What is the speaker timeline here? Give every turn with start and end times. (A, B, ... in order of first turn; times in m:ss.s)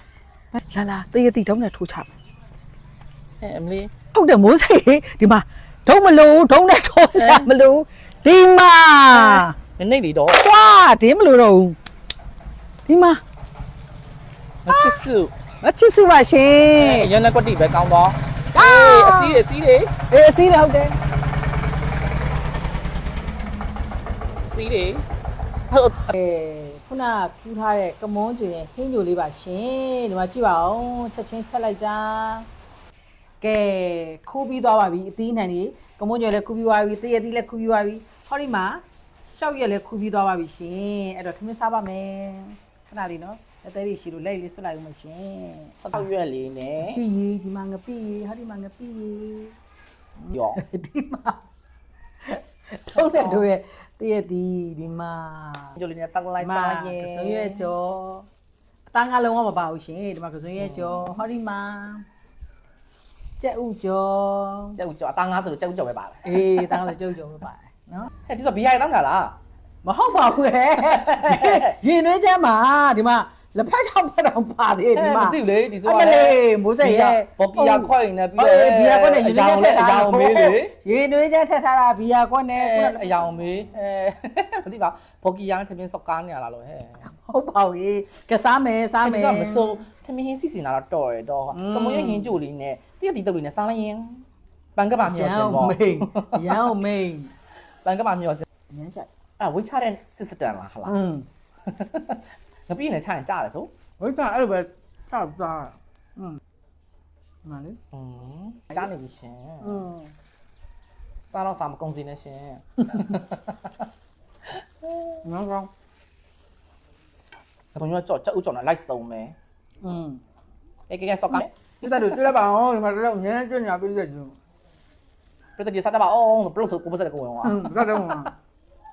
0:00.5-0:02.1 A
0:03.4-0:03.9 B
0:04.1-0:09.5 A
0:07.1-0:07.5 B
0:09.1-0:10.4 B
0:10.3-0:11.8 A
0:12.9-0:13.2 A
0:14.6-0:15.3 B
0:14.7-0:14.9 A
0:15.6-0:17.1 A
0:16.7-0:19.9 B
0:18.5-0:19.4 A
0:20.1-0:21.0 A
0:24.5-0:25.0 B
0:25.7-0:26.1 B
0:26.1-0:32.5 A
0:33.4-0:46.0 A
0:45.8-0:47.0 B
0:46.8-0:49.5 A
0:50.2-0:50.6 B
0:50.5-0:51.4 A
0:52.2-0:55.7 A
0:52.9-0:53.4 B
0:55.8-0:57.7 B
0:56.4-0:58.2 A
0:58.9-1:02.0 A
1:00.6-1:01.2 B
1:03.4-1:04.8 A
1:04.8-1:06.8 B
1:06.2-1:08.1 A
1:08.3-1:09.4 B
1:09.8-1:23.2 A
1:10.8-1:11.8 B
1:14.9-1:20.7 B
1:22.5-1:27.0 B
1:27.1-1:29.8 A
1:29.0-1:34.2 B
1:31.5-1:32.3 A
1:34.8-1:36.6 B
1:35.0-1:37.3 A
1:37.8-1:38.4 B
1:38.7-1:39.1 A
1:39.4-1:41.0 B
1:40.8-1:41.2 A
1:41.6-1:43.7 B
1:44.0-1:46.4 A
1:47.4-1:47.8 A
1:47.9-1:49.7 B
1:49.6-1:50.1 A
1:51.3-1:53.7 B
1:52.8-1:53.1 A
1:54.6-1:55.1 B
1:55.2-1:55.7 A
1:57.7-1:59.3 B
1:59.8-2:00.2 A
2:00.9-2:02.3 B
2:01.8-2:04.3 A
2:05.6-2:08.3 B
2:07.4-2:08.3 A